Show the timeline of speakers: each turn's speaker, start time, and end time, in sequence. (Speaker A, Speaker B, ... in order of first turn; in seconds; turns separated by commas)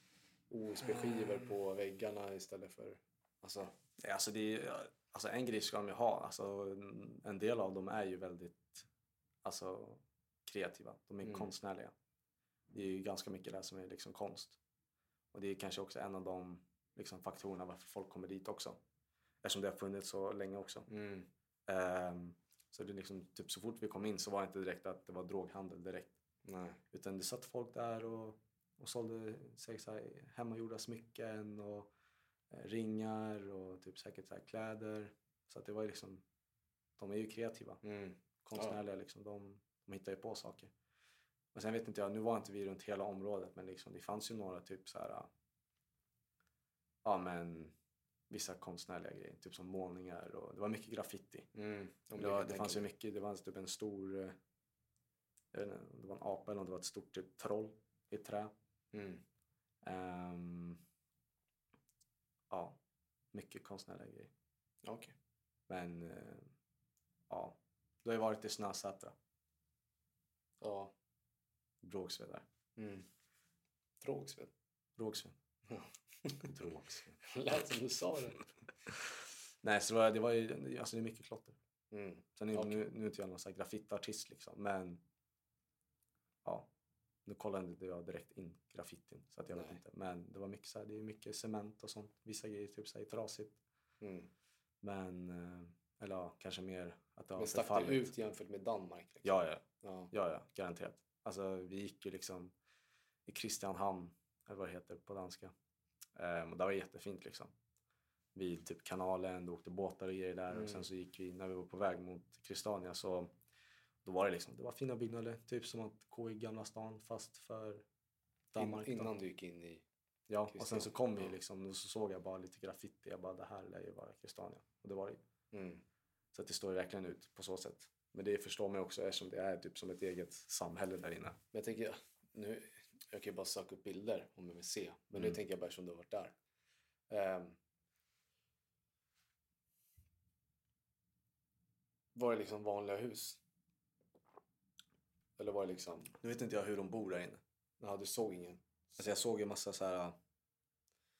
Speaker A: 0.5-3.8, Speaker B: 4.0-8.9, Speaker B: 9.4-11.9, Speaker A: 11.2-11.5, Speaker B: 12.7-14.6, Speaker B: 15.3-18.8, Speaker B: 19.4-20.9, Speaker A: 20.9-21.3, Speaker B: 21.7-26.1, Speaker A: 26.4-26.8, Speaker B: 26.9-31.9, Speaker B: 32.5-36.2, Speaker B: 37.0-37.8, Speaker A: 37.8-38.8, Speaker B: 38.4-40.7, Speaker B: 41.5-45.3, Speaker B: 47.0-47.7, Speaker B: 48.3-51.5, Speaker A: 51.5-52.9, Speaker B: 52.2-54.4, Speaker B: 55.5-58.5, Speaker A: 58.9-59.2, Speaker B: 59.8-60.8, Speaker B: 62.5-62.8, Speaker B: 63.3-64.3, Speaker A: 64.8-65.1, Speaker B: 65.7-66.5, Speaker B: 67.3-69.2, Speaker A: 70.6-70.9, Speaker B: 71.8-72.5, Speaker A: 72.8-73.1, Speaker A: 74.0-74.5, Speaker B: 75.0-75.3, Speaker A: 75.7-76.5, Speaker B: 76.4-77.2, Speaker A: 77.2-78.5, Speaker B: 79.6-81.6, Speaker A: 81.9-82.8, Speaker B: 82.4-85.0, Speaker B: 86.4-86.7, Speaker B: 87.2-93.5, Speaker A: 89.5-89.8, Speaker A: 94.0-94.3, Speaker B: 94.8-98.1, Speaker A: 97.4-100.1, Speaker B: 99.2-102.5, Speaker B: 103.2-105.5, Speaker B: 106.2-107.5, Speaker B: 108.3-113.3, Speaker A: 110.5-110.8, Speaker B: 114.0-117.8, Speaker B: 118.5-119.1, Speaker A: 118.5-119.8, Speaker B: 120.3-125.2, Speaker A: 120.5-121.3, Speaker A: 125.5-125.8, Speaker B: 126.3-131.4, Speaker A: 131.5-136.3, Speaker A: 137.1-137.6, Speaker A: 142.1-143.4, Speaker A: 145.4-146.1, Speaker B: 146.1-147.4, Speaker A: 147.8-148.6, Speaker B: 148.9-150.2